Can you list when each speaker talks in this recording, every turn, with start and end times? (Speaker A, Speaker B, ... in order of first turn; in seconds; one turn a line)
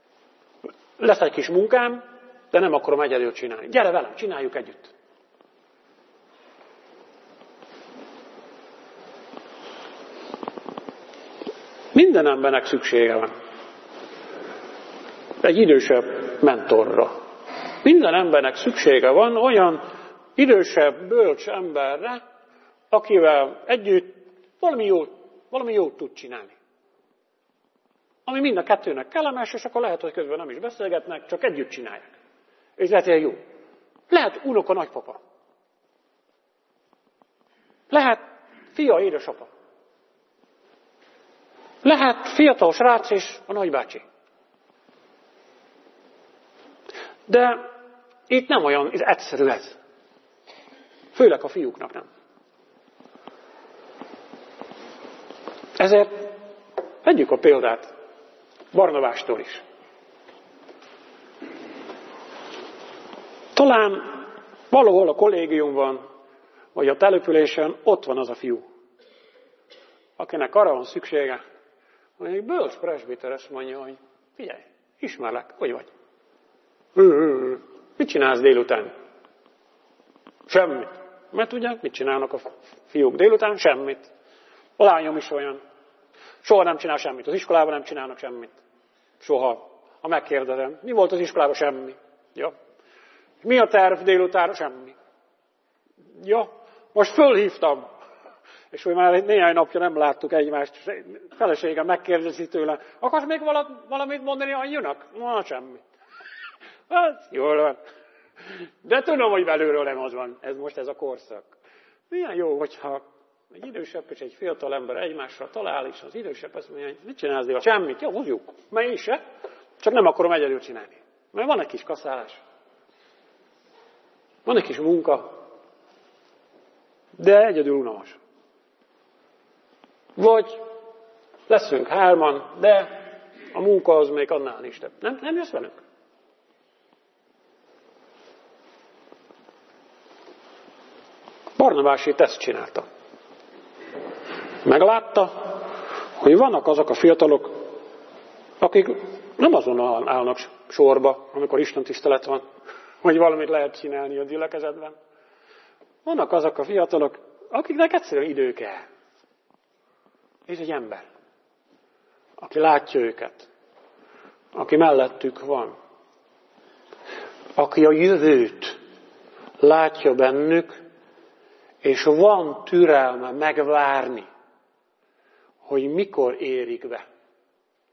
Speaker A: 1.0-4.9
Speaker A: 11.9-13.3
Speaker A: 15.4-17.1
Speaker A: 17.8-19.8
Speaker A: 20.4-22.2
Speaker A: 22.9-26.5
Speaker A: 28.2-32.1
Speaker A: 32.8-33.4
Speaker A: 34.1-35.2
Speaker A: 37.9-38.2
Speaker A: 38.7-39.5
Speaker A: 41.8-44.0
Speaker A: 47.3-47.6
Speaker A: 48.3-49.8
Speaker A: 51.1-52.0
Speaker A: 55.8-56.4
Speaker A: 57.0-57.9
Speaker A: 58.7-59.6
Speaker A: 63.5-66.0
Speaker A: 66.7-68.6
Speaker A: 70.2-71.4
Speaker A: 72.2-75.9
Speaker A: 76.9-78.9
Speaker A: 80.5-84.1
Speaker A: 84.8-85.6
Speaker A: 86.4-88.6
Speaker A: 89.2-92.5
Speaker A: 93.4-95.0
Speaker A: 96.1-97.8
Speaker A: 98.7-105.8
Speaker A: 106.9-107.8
Speaker A: 108.8-111.5
Speaker A: 112.1-119.2
Speaker A: 119.8-122.4
Speaker A: 124.5-125.4
Speaker A: 127.2-128.2
Speaker A: 130.2-130.7
Speaker A: 131.5-135.8
Speaker A: 141.6-142.8
Speaker A: 144.6-145.6
Speaker A: 146.2-147.7
Speaker A: 148.6-152.4
Speaker A: 153.0-154.9
Speaker A: 156.0-158.8
Speaker A: 160.5-161.1
Speaker A: 162.4-163.5
Speaker A: 164.5-165.7
Speaker A: 167.6-168.8
Speaker A: 169.6-170.8
Speaker A: 171.8-174.3
Speaker A: 175.7-177.0